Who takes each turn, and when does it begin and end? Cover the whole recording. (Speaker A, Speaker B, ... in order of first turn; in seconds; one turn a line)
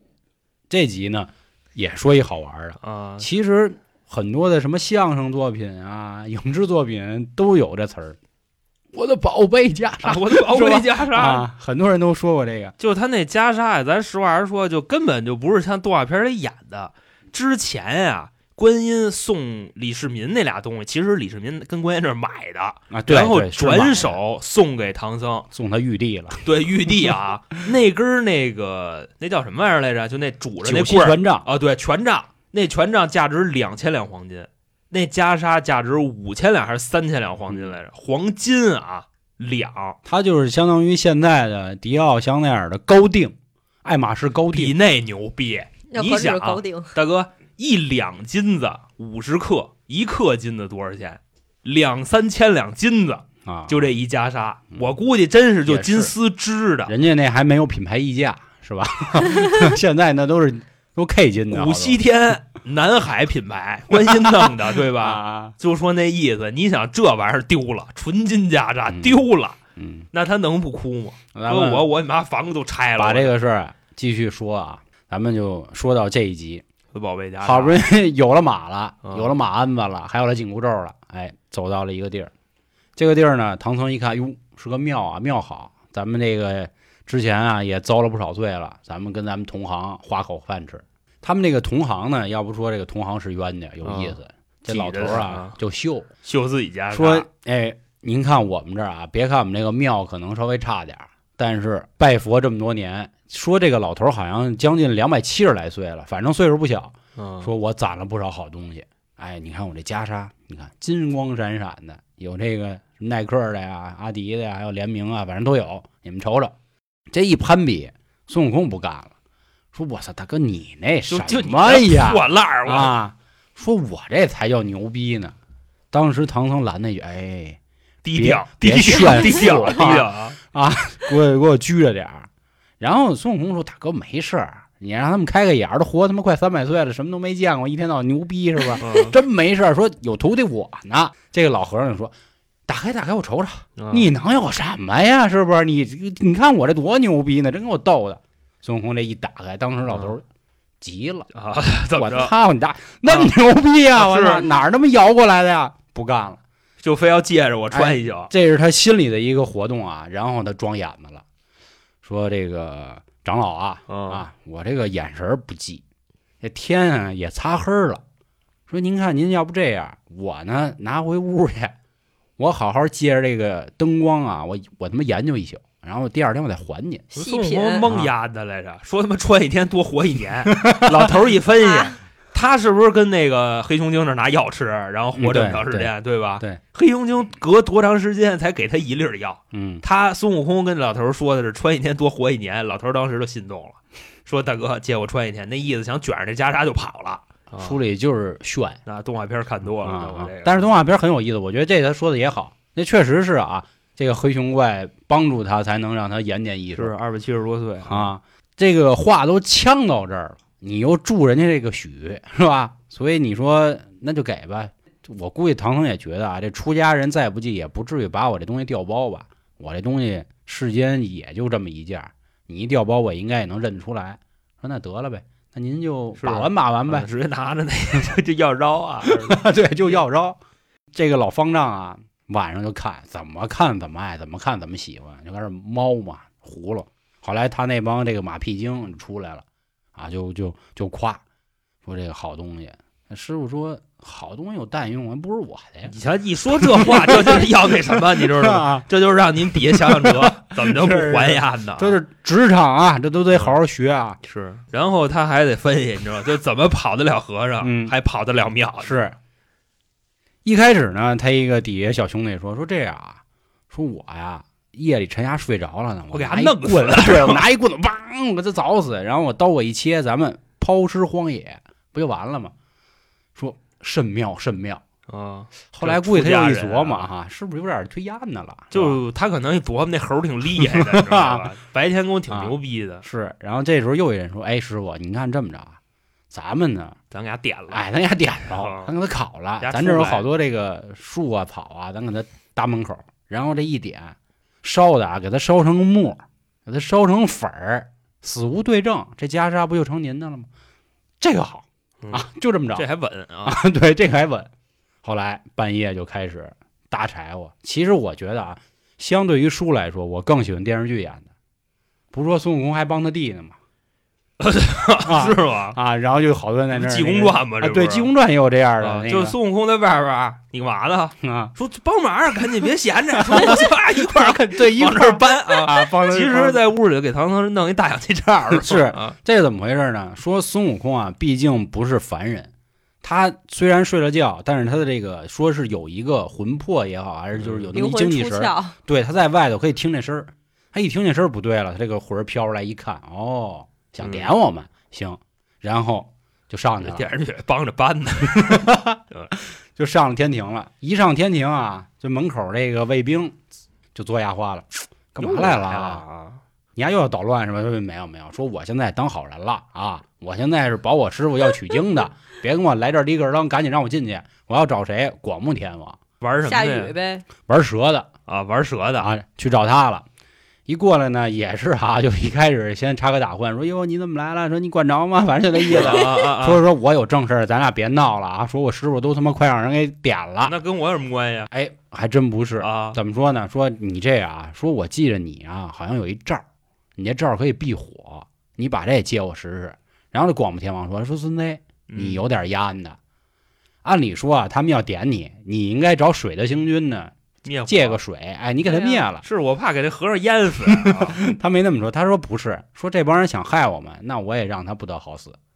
Speaker A: 0.7-8.2
Speaker B: 2.8-3.3
Speaker A: 8.9-12.8
Speaker B: 10.0-11.5
Speaker B: 12.8-25.5
Speaker A: 22.9-24.2
Speaker A: 25.5-27.1
Speaker B: 26.4-40.0
Speaker A: 30.6-31.5
Speaker A: 37.5-37.8
Speaker A: 40.0-44.8
Speaker B: 44.5-56.9
Speaker C: 45.9-47.0
Speaker A: 53.5-53.9
Speaker A: 55.7-56.1
Speaker A: 56.9-62.0
Speaker B: 61.5-69.6
Speaker A: 64.3-65.6
Speaker A: 68.9-69.2
Speaker A: 69.8-70.1
Speaker B: 70.1-73.3
Speaker A: 71.3-71.9
Speaker A: 73.0-76.6
Speaker B: 76.9-77.8
Speaker A: 77.4-82.3
Speaker B: 79.0-79.3
Speaker A: 83.0-96.1
Speaker B: 93.8-95.6
Speaker B: 96.2-97.3
Speaker A: 96.9-116.5
Speaker B: 107.2-107.5
Speaker A: 117.1-119.1
Speaker A: 119.7-125.3
Speaker B: 121.1-122.9
Speaker A: 125.9-127.6
Speaker B: 128.0-130.4
Speaker A: 128.2-132.3
Speaker A: 132.8-142.1
Speaker B: 138.8-139.2
Speaker A: 142.7-150.2
Speaker B: 143.8-144.1
Speaker B: 149.9-150.1
Speaker A: 150.8-151.3
Speaker B: 151.3-152.3
Speaker A: 151.9-156.4
Speaker B: 153.1-153.3
Speaker B: 153.9-154.5
Speaker B: 156.8-158.3
Speaker A: 157.7-161.2
Speaker A: 162.0-165.8
Speaker B: 163.9-164.2
Speaker A: 166.4-168.0
Speaker A: 168.7-171.8
Speaker A: 172.4-177.1
Speaker C: 177.2-177.9
Speaker B: 177.2-197.8
Speaker A: 177.8-178.1
Speaker A: 180.5-181.1
Speaker C: 181.6-181.9
Speaker A: 185.1-186.6
Speaker A: 189.5-189.8
Speaker A: 197.6-198.8
Speaker B: 198.9-200.7
Speaker A: 199.8-206.9
Speaker B: 206.7-208.1
Speaker A: 207.8-227.1
Speaker B: 226.2-229.4
Speaker A: 229.1-230.4
Speaker A: 230.9-241.2
Speaker A: 241.8-245.9
Speaker B: 245.9-252.0
Speaker A: 246.6-248.8
Speaker A: 249.5-254.2
Speaker B: 254.3-259.0
Speaker A: 257.6-257.9
Speaker A: 258.8-259.2
Speaker A: 260.4-272.5
Speaker B: 266.1-267.5
Speaker A: 273.4-274.8
Speaker B: 275.1-277.1
Speaker A: 275.7-279.0
Speaker B: 278.7-283.0
Speaker A: 280.6-281.5
Speaker A: 282.3-285.8
Speaker A: 286.3-287.0
Speaker B: 287.1-287.9
Speaker A: 287.7-300.5
Speaker B: 288.5-288.9
Speaker B: 289.6-290.3
Speaker A: 301.2-302.9
Speaker B: 302.0-303.6
Speaker A: 303.4-304.5
Speaker A: 305.0-311.3
Speaker A: 312.1-313.6
Speaker B: 314.4-315.8
Speaker A: 315.0-319.4
Speaker B: 316.7-318.1
Speaker B: 318.8-329.2
Speaker A: 321.2-321.5
Speaker A: 323.2-326.6
Speaker A: 328.5-332.5
Speaker A: 333.0-347.1
Speaker B: 337.4-337.8
Speaker C: 337.7-338.8
Speaker B: 344.0-344.3
Speaker B: 346.8-349.3
Speaker A: 348.4-353.4
Speaker A: 353.9-356.1
Speaker B: 355.2-356.4
Speaker A: 356.8-366.0
Speaker B: 366.2-366.9
Speaker C: 366.4-367.3
Speaker A: 367.5-368.1
Speaker B: 368.3-369.1
Speaker A: 369.0-370.1
Speaker A: 370.7-380.6
Speaker B: 375.7-376.6
Speaker B: 380.4-381.5
Speaker A: 381.5-386.4
Speaker B: 382.6-383.0
Speaker A: 387.0-393.0
Speaker B: 391.9-392.2
Speaker A: 393.8-397.1
Speaker B: 397.4-398.0
Speaker A: 397.7-399.2
Speaker C: 398.6-399.1
Speaker B: 399.2-401.2
Speaker A: 400.7-405.4